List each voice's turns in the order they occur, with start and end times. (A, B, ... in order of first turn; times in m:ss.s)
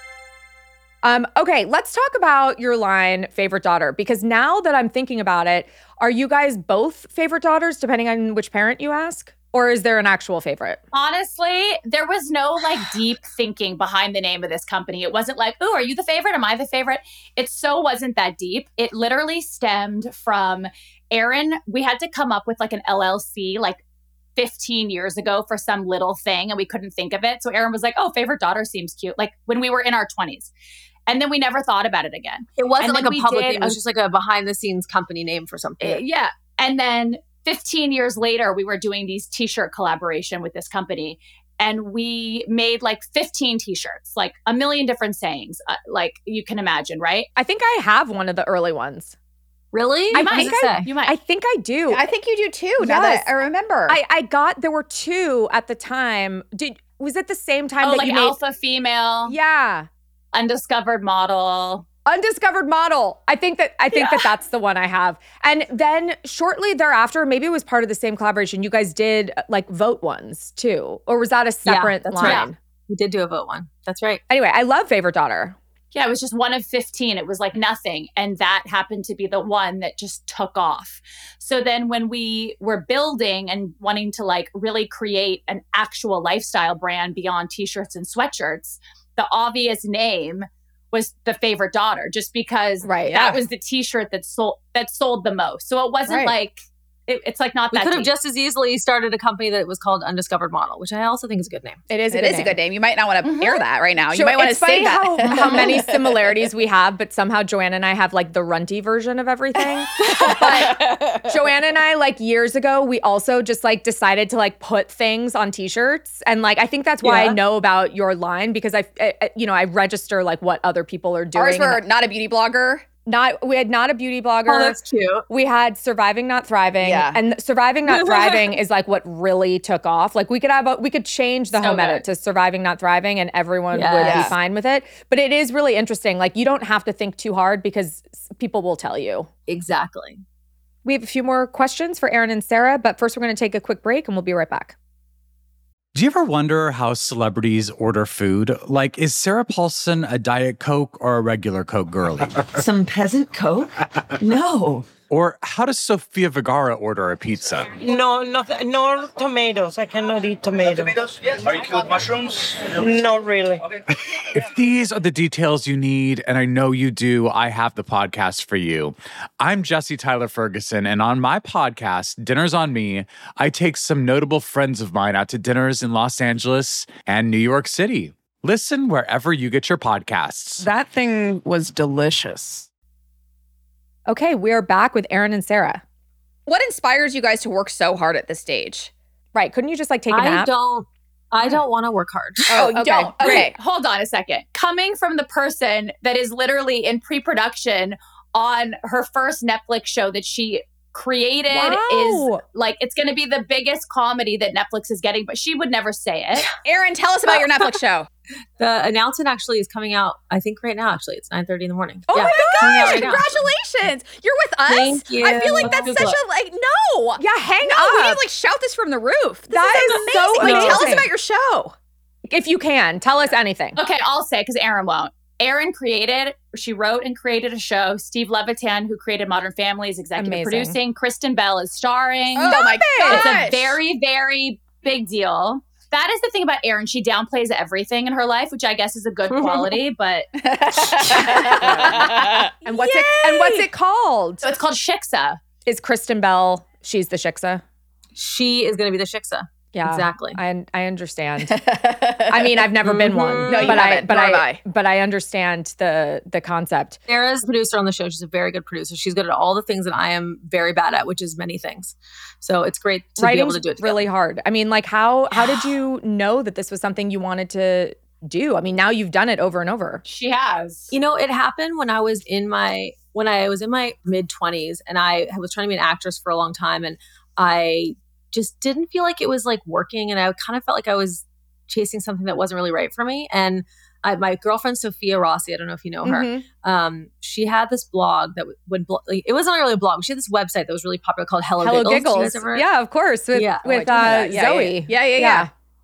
0:01.0-0:10.8 A
0:10.9-0:23.8 B
0:24.4-0:30.5 B
0:31.1-0:33.8 B
0:32.6-0:36.0 C
0:35.8-0:47.3 B
0:47.4-0:49.1 A
0:49.7-0:50.9 C
0:50.1-0:52.0 A
0:50.1-0:51.2 B
0:51.9-0:54.0 D
0:52.8-0:53.3 A
0:53.9-0:58.4 A
0:57.8-0:59.4 B
0:59.3-0:59.9 A
1:00.3-1:01.9 B
1:02.1-1:12.6 A
1:11.6-1:14.2 C
1:12.2-1:12.5 B
1:14.3-1:15.6 A
1:15.9-1:38.1 B
1:32.8-1:33.4 A
1:36.1-1:36.3 A
1:37.7-1:41.8 C
1:41.9-1:42.6 A
1:42.1-1:46.3 D
1:43.2-1:43.6 B
1:44.1-2:01.8 A
1:50.0-1:51.3 D
1:57.0-1:57.4 C
2:01.4-2:02.9 D
2:03.1-2:04.8 A
2:04.5-2:05.2 C
2:05.3-2:19.3 A
2:06.8-2:07.2 D
2:07.9-2:08.6 C
2:11.6-2:12.0 B
2:13.7-2:14.4 C
2:14.0-2:14.3 D
2:19.5-2:20.2 C
2:20.8-2:24.8 A
2:25.9-2:32.5 E
2:32.5-2:34.9 F
2:35.1-2:37.7 E
2:37.8-2:43.6 F
2:44.4-3:00.6 E
3:00.6-3:02.7 G
3:04.1-3:05.8 A
3:06.5-3:08.9 D
3:09.3-3:10.5 A
3:10.1-3:12.6 C
3:12.5-3:13.5 A
3:12.5-3:13.5 D
3:13.2-3:26.5 B
3:21.5-3:22.4 A
3:26.6-3:28.1 D
3:28.6-3:33.4 C
3:32.1-3:33.2 A
3:32.1-3:41.8 D
3:34.7-3:36.2 C
3:37.2-3:38.2 A
3:39.5-3:41.1 A
3:40.4-3:40.9 C
3:42.3-3:43.8 A
3:43.8-4:00.3 B
3:50.2-3:50.8 A
3:52.4-3:53.8 D
3:52.5-3:53.4 A
3:59.3-3:59.8 C
4:00.4-4:03.7 D
4:01.7-4:02.0 B
4:02.6-4:04.4 A
4:04.4-4:05.4 B
4:05.7-4:07.6 A
4:08.2-4:10.4 C
4:09.7-4:11.6 A
4:11.4-4:12.7 D
4:12.3-4:17.0 A
4:12.8-4:13.8 C
4:13.5-4:14.6 D
4:17.1-4:24.0 C
4:23.2-4:30.0 A
4:30.0-4:30.9 B
4:30.9-4:52.7 C
4:46.0-4:46.4 A
4:51.6-4:55.5 A
4:53.3-4:53.8 C
4:53.7-4:55.5 D